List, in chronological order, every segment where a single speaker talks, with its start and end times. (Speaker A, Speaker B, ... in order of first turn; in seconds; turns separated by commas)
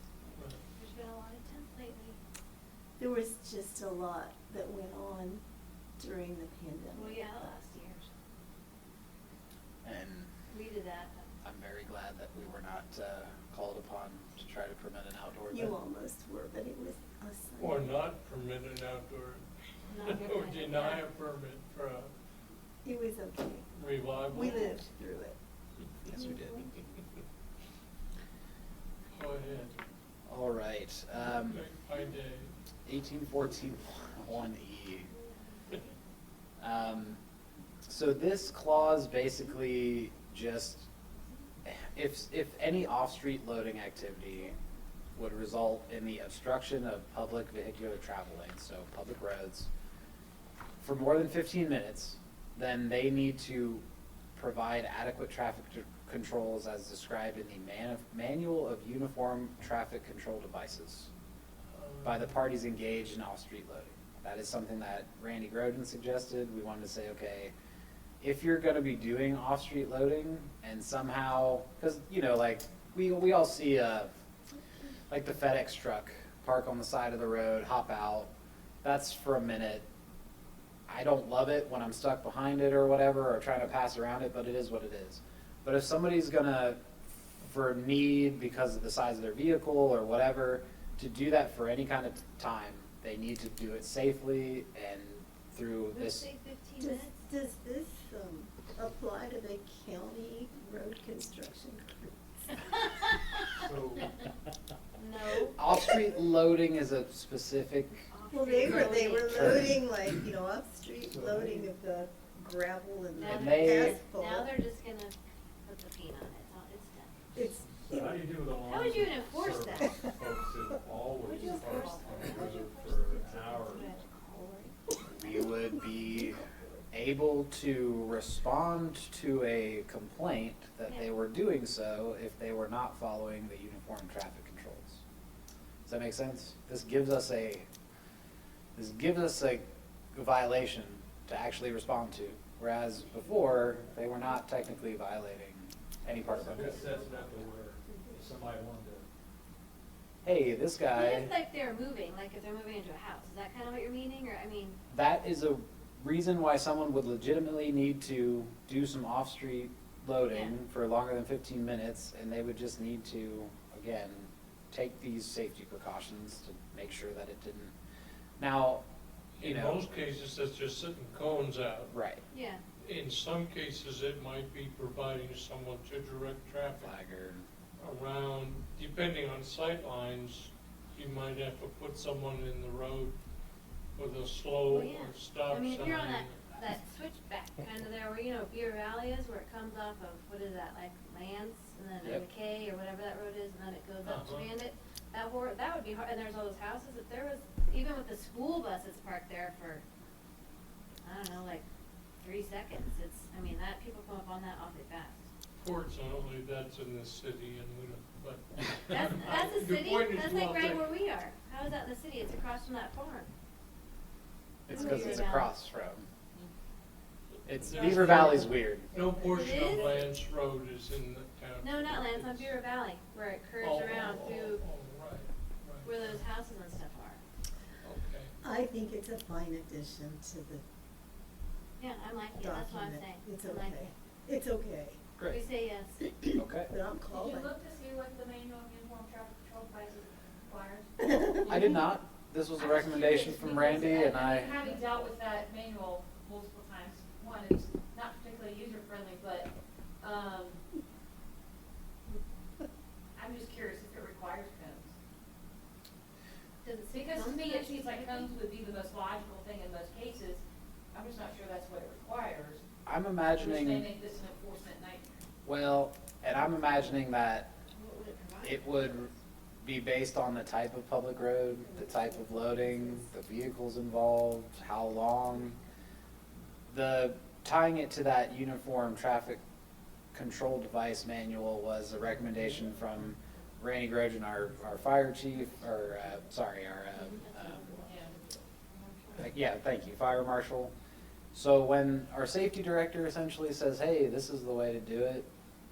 Speaker A: 0.8-2.2, Speaker B: 3.0-5.4, Speaker B: 6.0-7.5, Speaker A: 6.9-8.1, Speaker C: 9.8-10.3, Speaker A: 10.5-11.3, Speaker C: 11.4-15.7, Speaker B: 15.5-18.0, Speaker D: 17.6-22.1, Speaker A: 19.9-21.0, Speaker B: 22.8-23.7, Speaker D: 23.7-24.8, Speaker B: 24.3-25.4, Speaker B: 26.1-26.7, Speaker D: 26.1-26.6, Speaker D: 29.1-29.8, Speaker C: 30.2-31.6, Speaker D: 31.1-32.5, Speaker C: 32.9-35.1, Speaker C: 36.6-37.2, Speaker C: 37.9-40.9, Speaker C: 41.6-44.5, Speaker C: 45.1-49.7, Speaker C: 50.8-53.8, Speaker C: 54.3-61.1, Speaker D: 61.7-62.4, Speaker C: 62.0-67.5, Speaker C: 68.2-74.1, Speaker C: 75.1-78.3, Speaker C: 78.8-79.8, Speaker C: 80.9-86.8, Speaker C: 87.4-96.3, Speaker A: 95.9-97.2, Speaker B: 96.8-102.6, Speaker E: 103.5-104.1, Speaker A: 105.0-105.6, Speaker C: 105.6-108.0, Speaker A: 108.1-109.7, Speaker B: 108.3-114.5, Speaker C: 108.8-109.8, Speaker E: 111.0-111.7, Speaker A: 113.1-117.1, Speaker C: 113.2-114.0, Speaker B: 117.3-118.2, Speaker E: 117.7-124.0, Speaker A: 118.7-120.1, Speaker B: 121.2-126.8, Speaker F: 121.3-122.5, Speaker C: 125.1-126.4, Speaker C: 126.9-135.0, Speaker A: 130.8-131.1, Speaker C: 135.8-137.7, Speaker C: 138.7-146.8, Speaker E: 146.2-149.1, Speaker A: 146.8-147.5, Speaker B: 147.8-148.2, Speaker C: 150.2-151.3, Speaker A: 150.9-154.8, Speaker C: 154.9-167.7, Speaker A: 160.3-160.5, Speaker C: 168.4-168.8, Speaker D: 169.4-171.9, Speaker C: 169.4-169.8, Speaker C: 171.9-172.2, Speaker A: 172.3-172.6, Speaker D: 172.8-176.9, Speaker C: 176.7-177.4, Speaker D: 177.8-183.2, Speaker D: 183.9-186.4, Speaker A: 184.7-199.8, Speaker D: 194.0-194.5, Speaker A: 201.0-201.6, Speaker A: 202.2-205.2, Speaker D: 205.6-210.9, Speaker A: 208.9-213.3, Speaker C: 214.7-216.1, Speaker A: 214.7-215.5, Speaker C: 217.4-218.9, Speaker B: 217.6-219.7, Speaker D: 217.7-222.5, Speaker A: 219.3-220.0, Speaker A: 221.6-224.6, Speaker D: 223.6-226.2, Speaker A: 225.8-227.2, Speaker D: 227.8-228.3, Speaker B: 228.4-230.6, Speaker A: 231.8-233.9, Speaker B: 232.4-235.0, Speaker C: 235.2-235.4, Speaker A: 235.3-236.0, Speaker B: 236.2-237.5, Speaker C: 236.3-236.7, Speaker F: 237.1-241.7, Speaker B: 241.1-241.5, Speaker C: 241.3-244.6, Speaker F: 242.6-250.6, Speaker F: 253.1-254.9, Speaker A: 256.6-258.3, Speaker F: 256.9-262.6, Speaker C: 262.9-263.9, Speaker F: 263.3-265.1, Speaker C: 265.4-267.5, Speaker A: 267.8-268.3, Speaker C: 268.4-269.1, Speaker C: 269.6-275.6, Speaker B: 271.6-272.8, Speaker C: 276.7-279.4, Speaker C: 280.1-287.7, Speaker A: 287.1-287.8, Speaker F: 287.8-289.3, Speaker C: 289.1-290.7, Speaker C: 291.3-295.3